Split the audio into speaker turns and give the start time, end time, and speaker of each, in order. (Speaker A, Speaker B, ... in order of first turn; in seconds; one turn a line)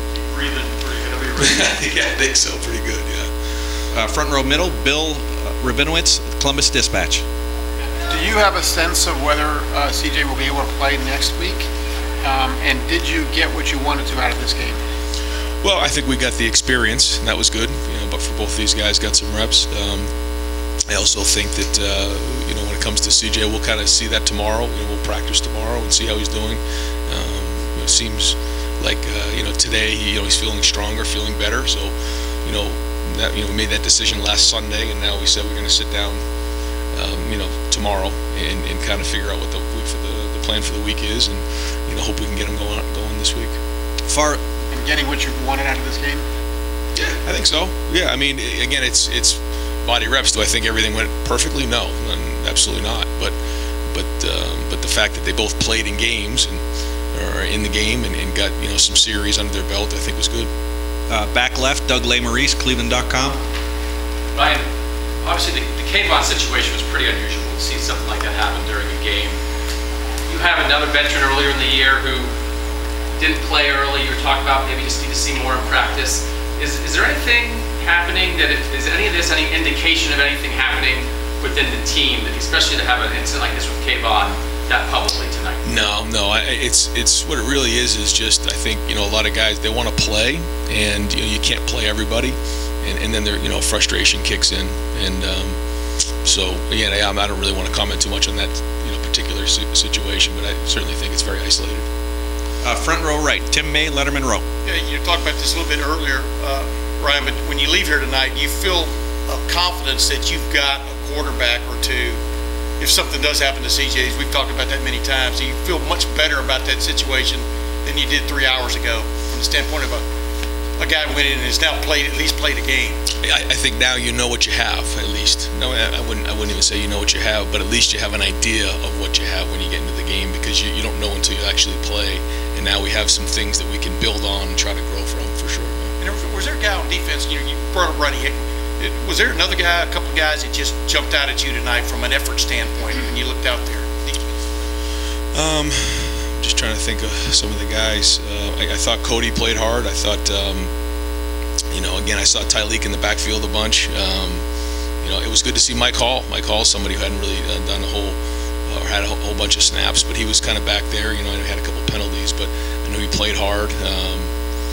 Speaker A: 0.2-1.7
Speaker B: 1.4-3.3
Speaker C: 3.9-7.2
Speaker D: 8.1-11.6
Speaker D: 12.2-13.5
Speaker B: 15.6-20.1
Speaker B: 20.9-31.9
Speaker B: 32.5-36.2
Speaker B: 37.0-43.5
Speaker C: 44.1-44.4
Speaker D: 44.7-46.2
Speaker B: 47.0-53.4
Speaker B: 53.9-56.6
Speaker B: 57.1-60.5
Speaker C: 61.1-63.4
Speaker E: 64.3-64.7
Speaker E: 65.2-69.4
Speaker E: 70.3-72.3
Speaker E: 73.2-85.6
Speaker B: 85.6-95.6
Speaker B: 96.2-101.9
Speaker C: 102.6-104.4
Speaker A: 104.7-112.2
Speaker A: 112.8-120.0
Speaker A: 120.8-123.0
Speaker B: 123.2-135.9
Speaker A: 136.0-144.3
Speaker B: 145.3-150.7
Speaker B: 151.7-154.4
Speaker B: 155.0-164.3